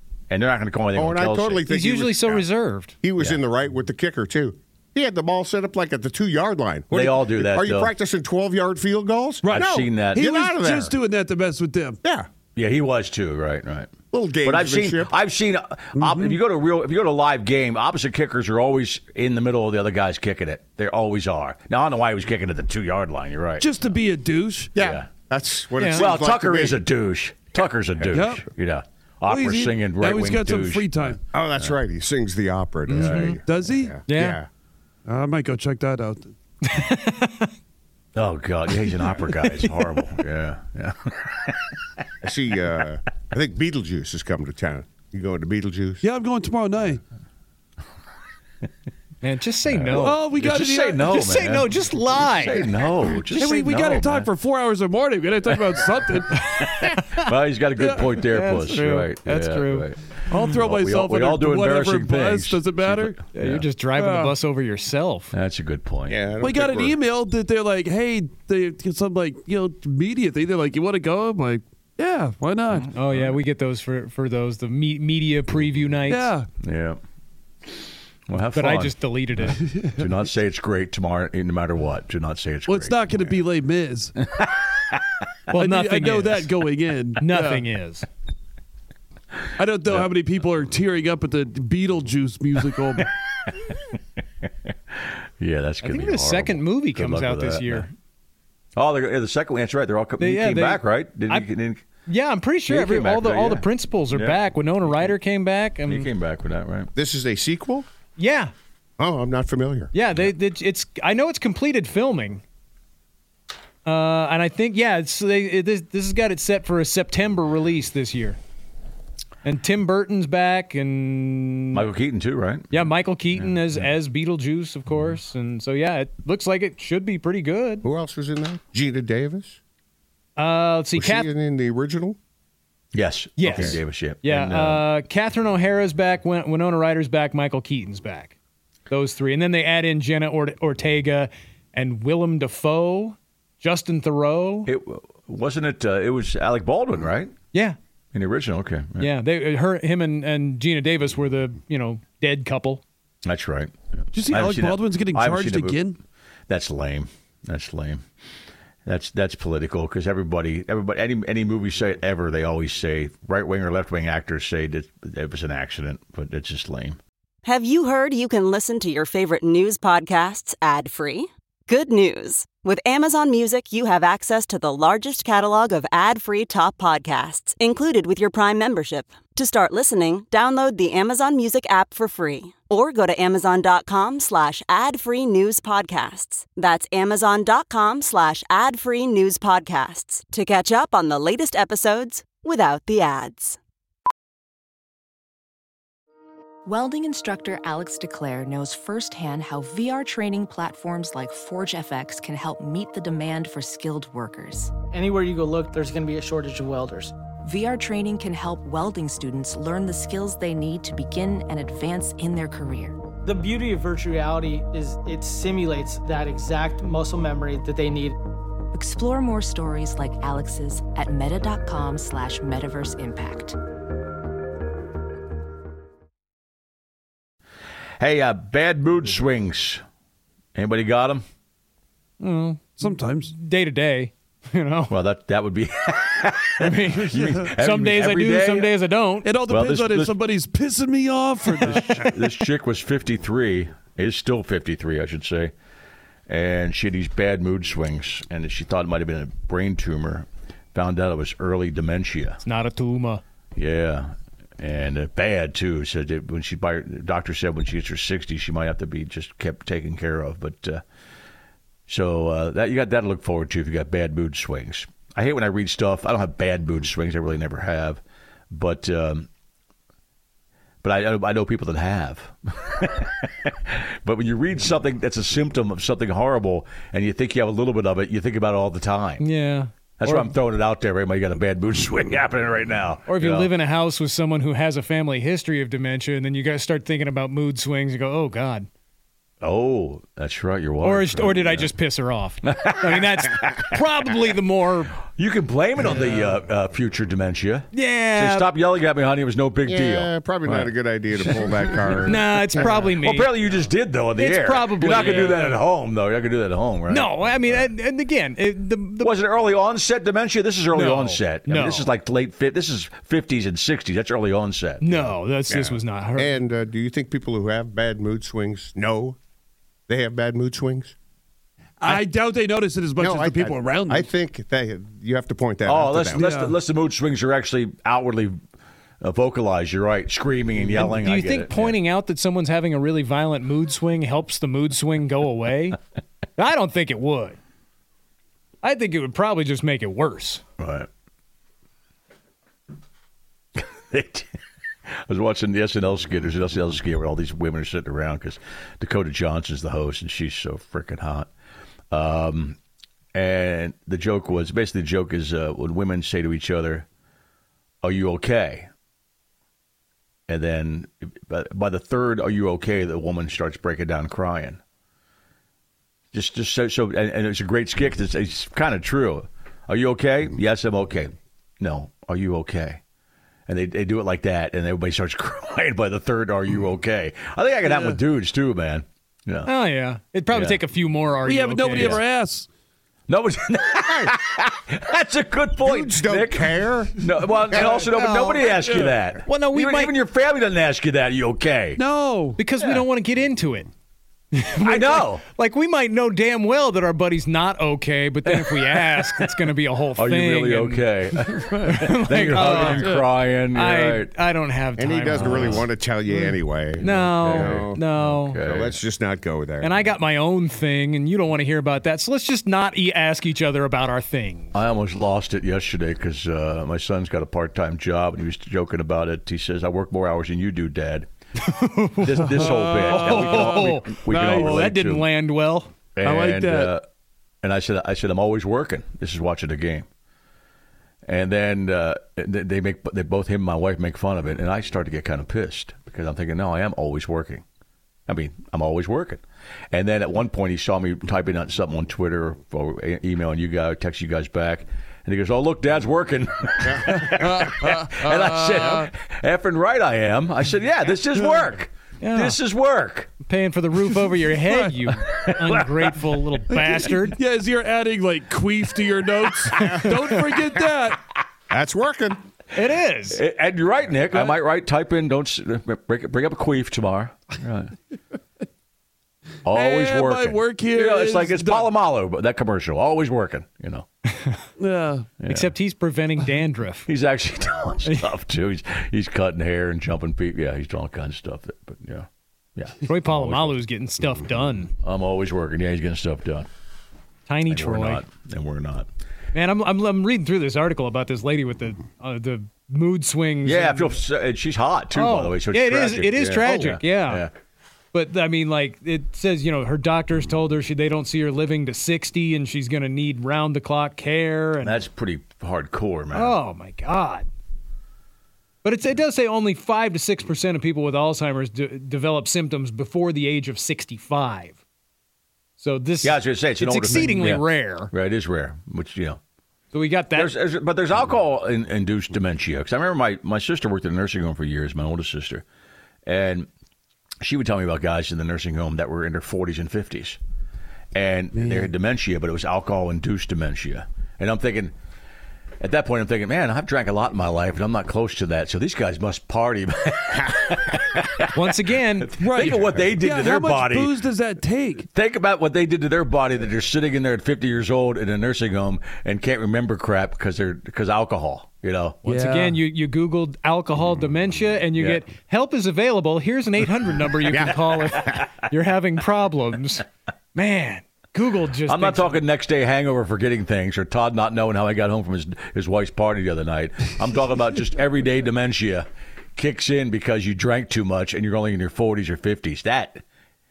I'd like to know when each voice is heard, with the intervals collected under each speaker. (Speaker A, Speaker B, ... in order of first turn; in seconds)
Speaker A: 0.3-1.6, 6.9-7.9, 9.5-10.2, 12.6-13.9, 14.4-23.7, 24.8-25.1, 25.9-31.8, 32.9-33.4, 38.1-41.7, 49.7-51.7, 52.2-54.3, 56.4-63.7, 65.3-66.3, 73.0-73.3, 76.6-77.0, 78.3-79.0, 80.0-83.2, 93.4-93.8, 95.4-97.9, 98.8-101.8, 102.7-105.1, 105.9-106.9, 121.7-122.9, 123.4-123.8, 132.9-134.8, 144.7-147.3, 148.1-149.1, 153.2-155.9, 156.5-158.0, 158.9-167.0, 228.0-229.8, 230.6-231.2, 234.9-238.7, 239.5-240.2, 241.7-245.5, 246.3-252.4, 253.6-260.8, 261.9-269.3, 270.8-279.2, 280.0-283.5, 289.4-291.7, 292.4-293.6, 295.1-300.1, 301.4-307.7, 309.0-315.1, 325.7-328.4, 329.0-331.8, 340.6-340.9, 343.6-344.4, 345.0-351.3, 351.9-352.6, 353.1-356.9, 357.8-358.7, 360.3-364.6, 366.1-372.8, 373.5-379.5, 380.3-380.6, 381.7-382.0, 383.1-391.8, 394.6-395.2, 398.3-399.3, 400.0-404.1, 405.1-405.7, 406.8-408.8, 414.5-421.1, 422.0-425.1, 426.0-426.8, 427.4-429.9, 431.1-437.4, 438.1-453.1, 455.1-455.6, 463.1-467.7, 469.4-473.9, 475.2-475.5, 476.9-483.6, 484.8-486.5, 487.5-488.9, 493.4-497.3, 504.6-506.4, 516.0-519.2, 520.1-525.4, 526.1-526.5, 527.2-530.2, 530.9-534.7, 535.6-541.3, 542.0-543.9, 544.9-552.0, 554.8-555.0, 561.7-573.0
Speaker B: 0.9-2.5, 3.0-10.9, 12.0-12.3, 14.1-15.1, 24.8-26.8, 31.3-34.5, 42.2-46.0, 66.1-67.0, 107.0-107.9, 109.0-109.9, 127.8-129.6, 130.9-132.2, 133.5-133.8, 299.7-302.8, 315.5-319.2, 319.9-320.9, 323.0-326.3, 383.9-384.1, 385.6-387.0, 387.5-387.8, 404.8-407.8, 408.4-409.8, 461.5-462.2, 557.3-558.2
Speaker C: 1.7-3.0, 25.8-26.1, 33.0-33.4, 34.1-34.4, 36.6-37.5, 39.1-39.6, 49.2-50.2, 51.1-52.8, 56.8-57.2, 58.3-59.9, 63.3-65.3, 72.9-76.3, 78.5-79.6, 85.5-86.5, 87.2-88.1, 95.8-97.9, 100.2-101.5, 102.1-106.1, 108.2-108.5, 109.9-112.4, 113.8-118.4, 119.4-121.8, 122.7-127.8, 130.4-131.3, 133.4-138.3, 138.9-144.7, 149.0-152.8, 232.2-234.9, 236.6-239.3, 252.4-253.2, 279.2-280.3, 283.1-288.7, 290.8-294.9, 297.7-298.5, 302.0-303.4, 304.2-305.6, 306.9-309.2, 310.7-311.9, 314.8-316.4, 330.7-335.8, 336.4-337.4, 338.6-340.4, 379.4-382.0, 387.5-388.5, 389.2-389.9, 392.4-393.7, 394.3-400.9, 401.6-403.0, 403.5-406.2, 406.8-408.4, 409.6-414.5, 421.5-422.2, 422.8-425.7, 452.0-452.4, 453.2-457.2, 462.6-463.2, 475.3-476.9, 482.9-484.7, 487.3-488.0, 489.3-494.0, 494.9-497.3, 497.9-504.8, 506.1-507.3, 508.6-514.6, 515.6-517.9, 519.7-520.3, 541.3-542.6, 552.1-562.2
Speaker D: 9.4-12.0, 15.9-16.4, 23.6-24.7, 28.1-28.4, 29.3-31.2, 33.0-34.0, 35.1-36.3, 46.0-47.0, 49.9-51.2, 53.3-56.4, 57.8-58.2, 60.3-63.2, 64.0-64.3, 66.4-72.9, 76.1-76.5, 79.7-80.1, 82.7-84.2, 85.5-87.7, 89.6-93.1, 154.1-156.0, 232.8-233.3, 239.2-242.1, 321.8-324.1, 326.1-326.6, 377.6-378.0, 381.2-382.5, 387.5-387.9, 388.5-389.0, 391.8-392.4, 402.3-403.1, 422.2-424.7, 426.0-426.8, 447.1-448.9, 451.2-451.5, 454.5-454.7, 456.5-461.0, 464.1-464.4, 469.5-471.7, 474.6-475.1, 531.3-531.7, 542.2-544.9, 552.0-552.6
Speaker E: 167.4-193.6
Speaker F: 196.7-204.7, 207.5-213.0, 218.7-223.6
Speaker G: 204.9-207.2, 213.2-218.2